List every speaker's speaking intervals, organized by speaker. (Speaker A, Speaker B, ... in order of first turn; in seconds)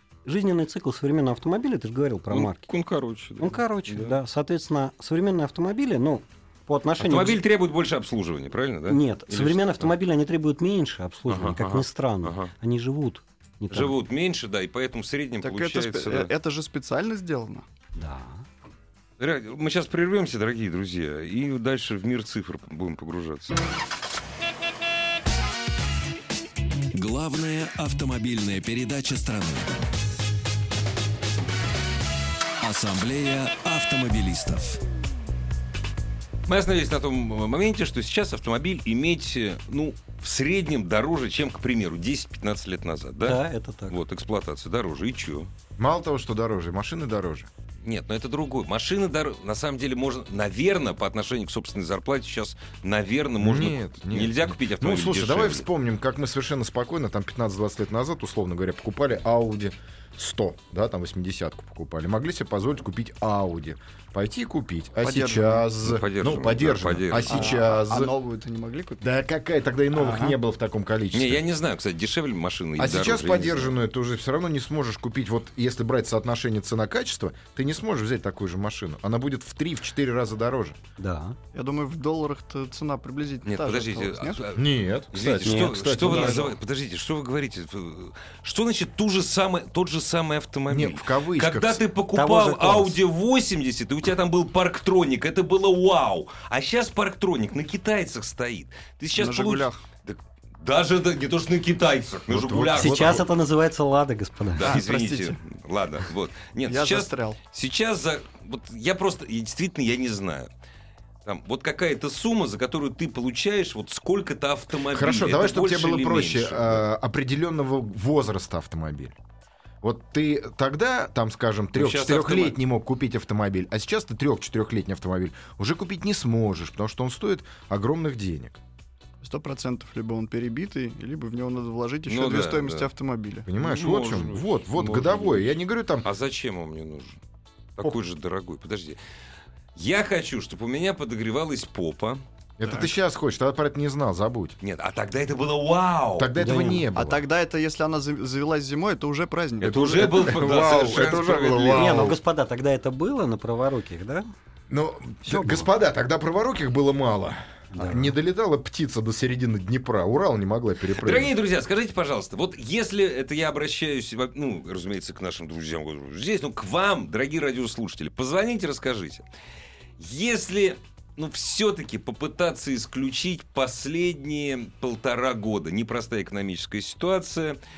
Speaker A: 0.2-2.7, 3.4-7.4, 8.9-13.9, 17.9-18.4, 43.2-44.0, 81.0-81.4, 85.4-86.3, 92.1-93.0, 102.8-104.8, 146.4-146.9, 151.7-154.2, 155.2-155.7, 157.7-158.1
Speaker B: 2.3-4.2, 7.0-9.9, 11.3-12.5, 13.7-16.3, 19.2-23.6, 36.5-45.5, 47.8-55.7, 65.8-67.6, 71.1-73.8, 83.4-103.2, 104.6-110.5, 111.2-116.8, 121.7-122.6, 132.1-132.9, 133.6-137.2, 137.8-139.0, 139.7-142.2, 144.6-146.3, 149.6-152.1, 160.9-169.2, 170.0-177.6
Speaker C: 15.4-17.6, 65.0-65.7, 67.3-69.0, 69.9-70.3, 81.5-84.4, 99.1-99.8, 104.6-105.4, 106.7-107.4, 129.2-133.5, 142.6-142.9, 146.9-150.3
Speaker D: 26.9-29.7, 32.6-34.8
Speaker E: 45.8-47.5, 53.4-68.1, 69.0-71.4, 72.8-80.8, 84.5-86.5, 90.7-91.8, 102.3-103.2, 114.9-119.2, 119.8-128.6, 133.5-136.1, 142.6-144.6, 146.2-147.2, 149.8-152.2, 154.7-161.3